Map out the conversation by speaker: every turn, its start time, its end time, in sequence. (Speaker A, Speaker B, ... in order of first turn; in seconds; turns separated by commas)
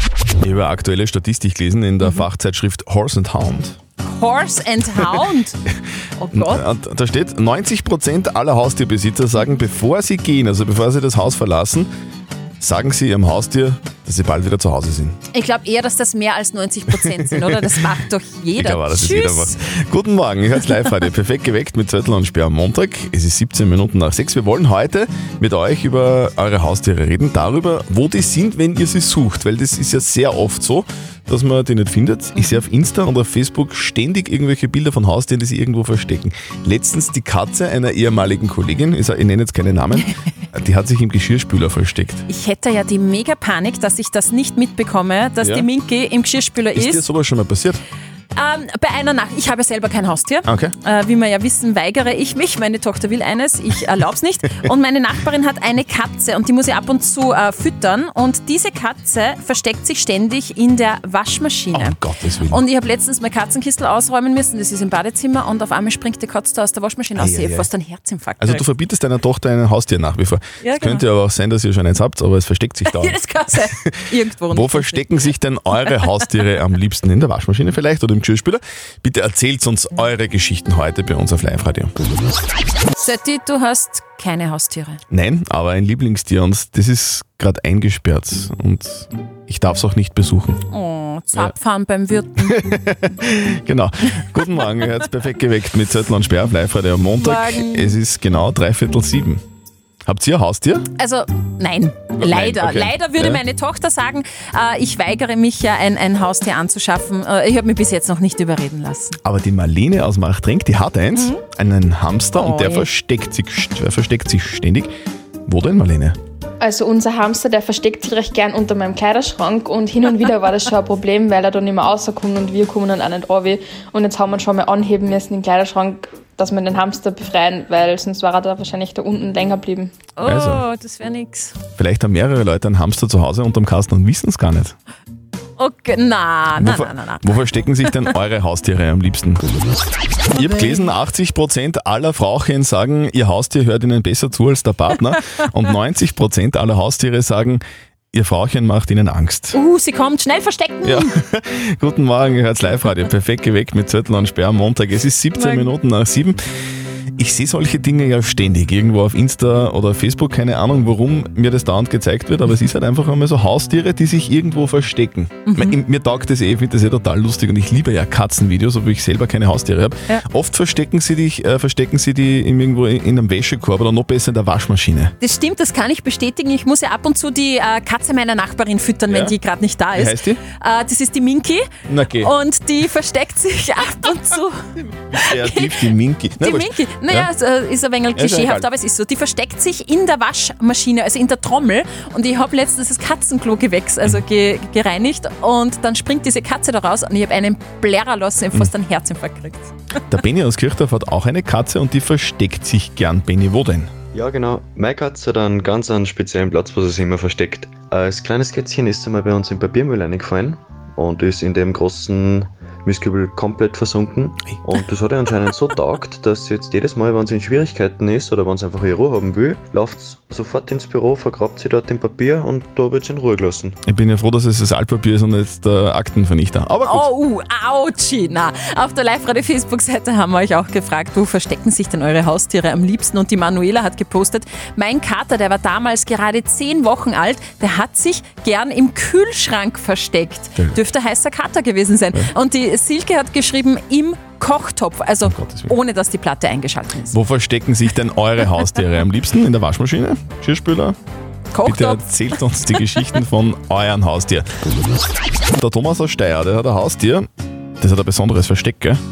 Speaker A: 0.4-3.8, Speaker B: 4.0-5.6, Speaker B: 6.2-6.6, Speaker A: 6.3-11.9, Speaker A: 12.6-15.2, Speaker B: 15.3-19.6, Speaker A: 17.0-17.8, Speaker A: 18.6-42.2, Speaker B: 32.4-32.6, Speaker B: 42.3-47.0, Speaker A: 45.4-45.7, Speaker A: 46.8-47.8, Speaker B: 48.4-68.7, Speaker A: 50.5-50.7, Speaker A: 61.7-62.6, Speaker A: 67.2-67.7, Speaker A: 68.4-74.0, Speaker B: 70.6-71.0, Speaker B: 72.9-75.0, Speaker A: 74.5-81.9, Speaker B: 83.0-85.0, Speaker A: 85.1-90.6, Speaker B: 90.7-92.6, Speaker A: 92.4-99.4, Speaker B: 97.2-98.0, Speaker A: 100.1-100.9, Speaker B: 101.0-109.2, Speaker A: 102.2-103.4, Speaker A: 109.2-114.9, Speaker B: 111.2-111.4, Speaker B: 112.3-112.9, Speaker A: 115.5-116.2, Speaker C: 116.6-129.9, Speaker B: 130.2-131.5, Speaker A: 130.2-130.7, Speaker A: 131.8-134.8, Speaker B: 135.6-138.1, Speaker A: 136.6-139.4, Speaker A: 140.3-147.6, Speaker B: 140.4-140.9, Speaker A: 148.1-149.6, Speaker B: 149.5-151.1, Speaker A: 150.8-156.4, Speaker B: 155.4-155.7, Speaker A: 157.2-175.1, Speaker B: 165.5-165.8, Speaker B: 175.2-184.6, Speaker A: 179.1-179.4, Speaker A: 179.9-180.4, Speaker A: 181.9-182.3, Speaker A: 184.8-187.3, Speaker B: 185.2-185.7, Speaker B: 186.4-199.7, Speaker A: 188.2-188.7, Speaker A: 200.1-203.9, Speaker D: 204.1-223.8, Speaker A: 223.8-227.1, Speaker B: 226.8-247.2, Speaker A: 245.2-245.7, Speaker A: 247.1-251.0, Speaker B: 251.5-252.0, Speaker A: 251.6-254.5, Speaker A: 255.6-257.3, Speaker A: 257.8-259.0